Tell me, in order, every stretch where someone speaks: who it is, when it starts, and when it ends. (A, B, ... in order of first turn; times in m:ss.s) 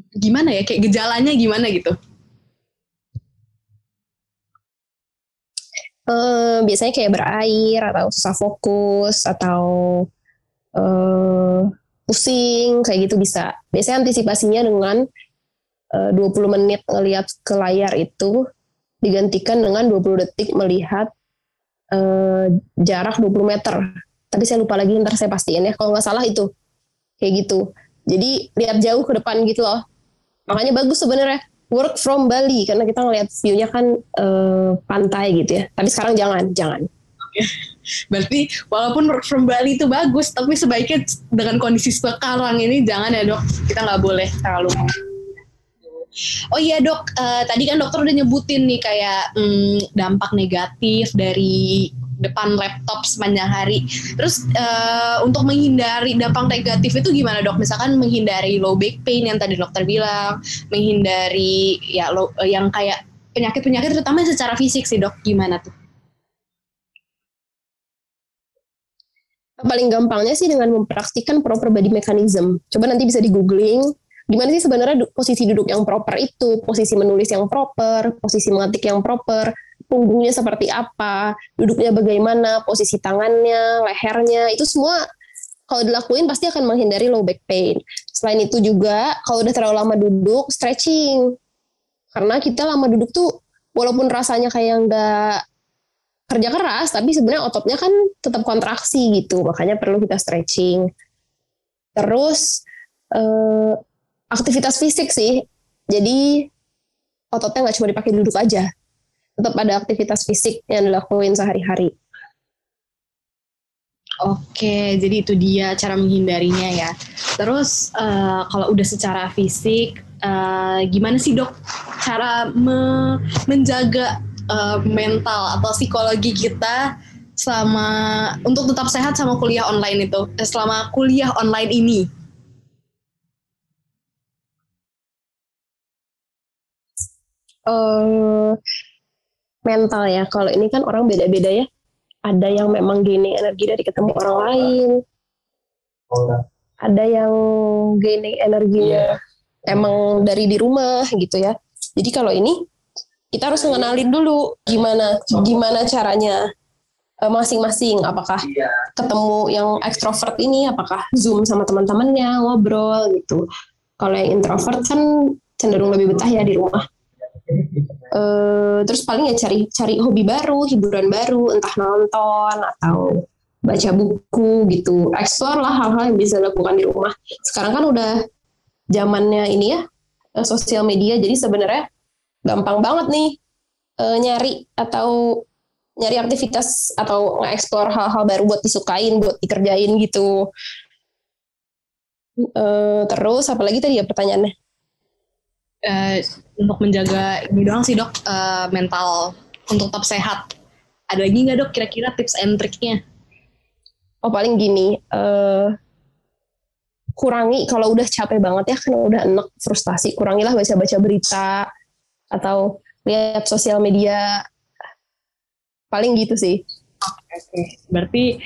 0:00.2-0:02.0 A
0:06.1-0:10.1 B
0:10.8-0:15.0 B
0:15.9-0:18.4 B
0:19.0-0:21.1 B
0:21.9-0:26.5 B
0:27.2-0:29.8 B
0:30.5-0:36.9 B
0:38.1-0:45.0 A
0:46.5-1:05.7 A
1:09.6-1:25.0 B
1:25.7-1:31.4 B
1:32.1-1:35.4 B
1:36.3-1:40.9 B
1:42.0-1:42.6 B
1:43.1-1:43.8 B
1:44.3-1:46.5 B
1:47.3-1:48.7 B
1:49.4-1:51.9 B
1:54.2-2:12.1 A
2:17.7-2:18.6 B
2:19.7-2:21.7 B
2:22.3-2:25.0 B
2:26.1-2:32.6 B
2:33.3-2:36.4 B
2:37.2-2:43.4 B
2:44.0-2:46.8 B
2:48.1-2:58.2 B
2:58.9-2:59.8 B
3:00.4-3:01.8 B
3:02.4-3:03.4 B
3:04.0-3:05.4 B
3:06.0-3:10.5 B
3:12.4-3:14.5 B
3:15.8-3:20.5 A
3:21.1-3:23.0 A
3:24.2-3:25.8 B
3:27.2-3:31.7 B
3:32.3-3:34.4 B
3:35.9-3:36.6 B
3:37.1-3:38.3 A